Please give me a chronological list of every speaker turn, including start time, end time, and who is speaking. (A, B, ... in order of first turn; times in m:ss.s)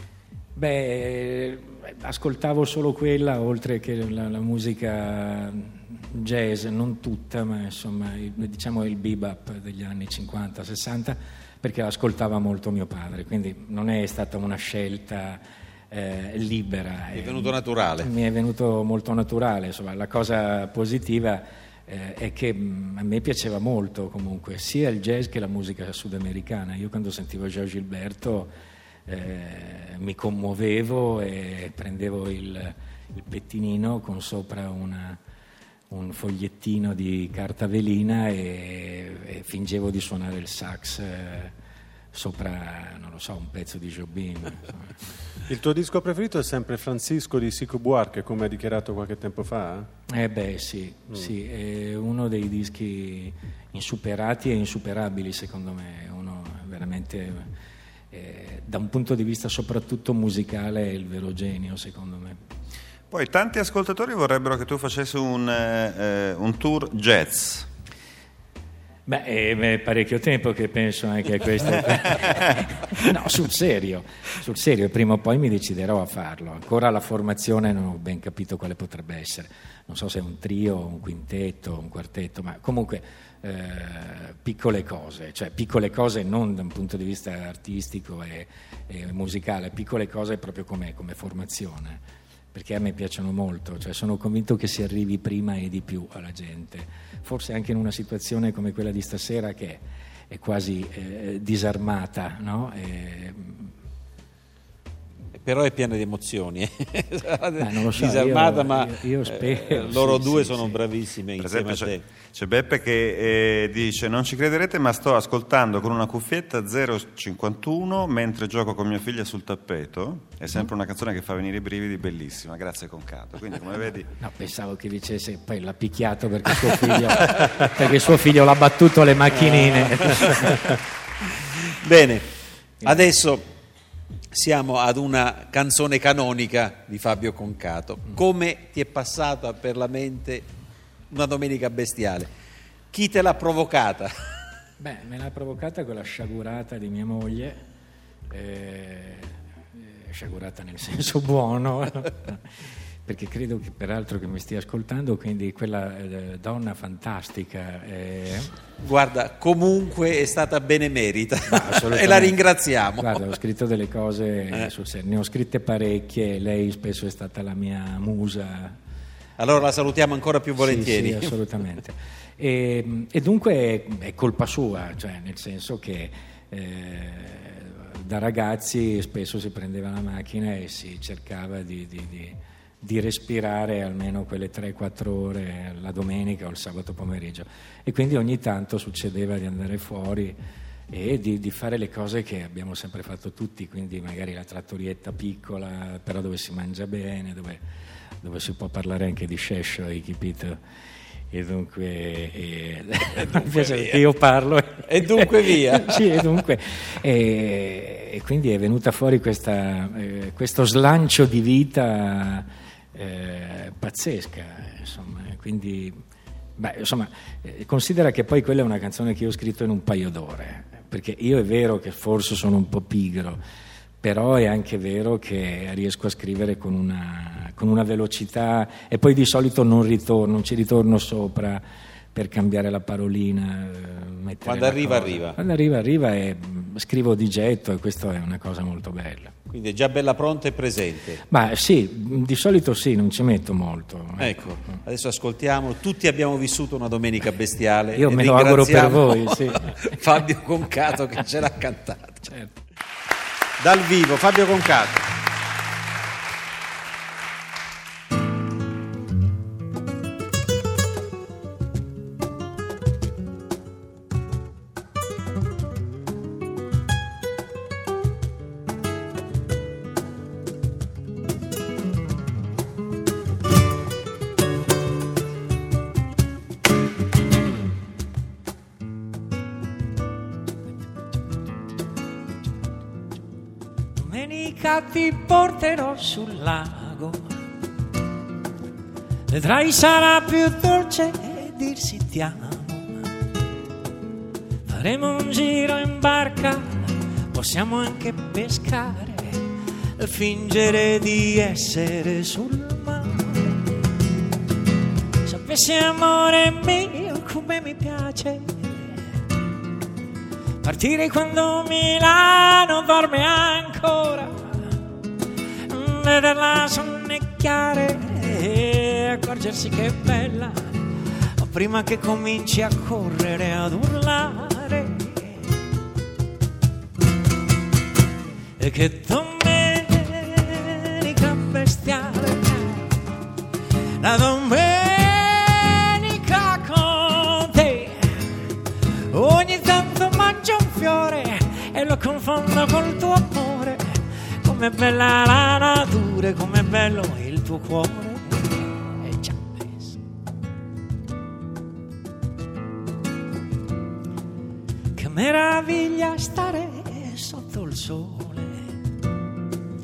0:00.6-0:28.5 A
0:17.1-0:18.1 B
0:29.1-0:35.2 A
0:35.9-0:41.6 A
0:42.1-0:45.0 A
0:45.5-0:49.9 C
0:50.1-0:57.5 A
0:58.1-1:02.4 A
1:03.1-1:07.7 D
1:09.1-1:43.7 A
1:45.4-1:52.0 B
1:47.6-1:50.8 A
1:51.4-2:04.1 D
2:04.2-2:10.8 A
2:09.4-2:10.5 B
2:11.6-2:12.3 B
2:12.8-2:13.4 B
2:14.3-2:20.5 B
2:21.1-2:22.3 B
2:22.9-2:24.2 B
2:24.8-2:27.6 A
2:28.3-2:32.5 A
2:33.0-2:38.6 A
2:38.8-2:43.3 B
2:41.5-2:42.4 A
2:43.0-2:48.8 A
2:49.4-2:51.4 B
2:50.6-3:10.4 A
3:10.9-3:17.6 A
3:18.2-3:20.6 A
3:21.3-3:36.0 A
3:23.2-3:24.0 B
3:24.8-3:26.3 B
3:36.6-3:43.4 A
3:44.0-3:51.6 A
3:52.1-3:59.4 A
3:54.4-3:55.4 B
3:59.5-4:01.2 B
4:01.3-4:04.8 A
4:04.2-4:12.3 B
4:08.0-4:09.8 A
4:12.2-4:12.6 A
4:13.6-4:15.1 B
4:44.0-4:47.3 E
4:49.3-4:53.1 E
4:54.7-4:59.4 E
5:00.0-5:03.6 E
5:05.2-5:09.0 E
5:10.6-5:14.8 E
5:15.7-5:20.7 E
5:21.4-5:25.5 E
5:28.6-5:33.0 E
5:34.0-5:38.4 E
5:39.1-5:50.0 E
5:55.0-5:58.7 E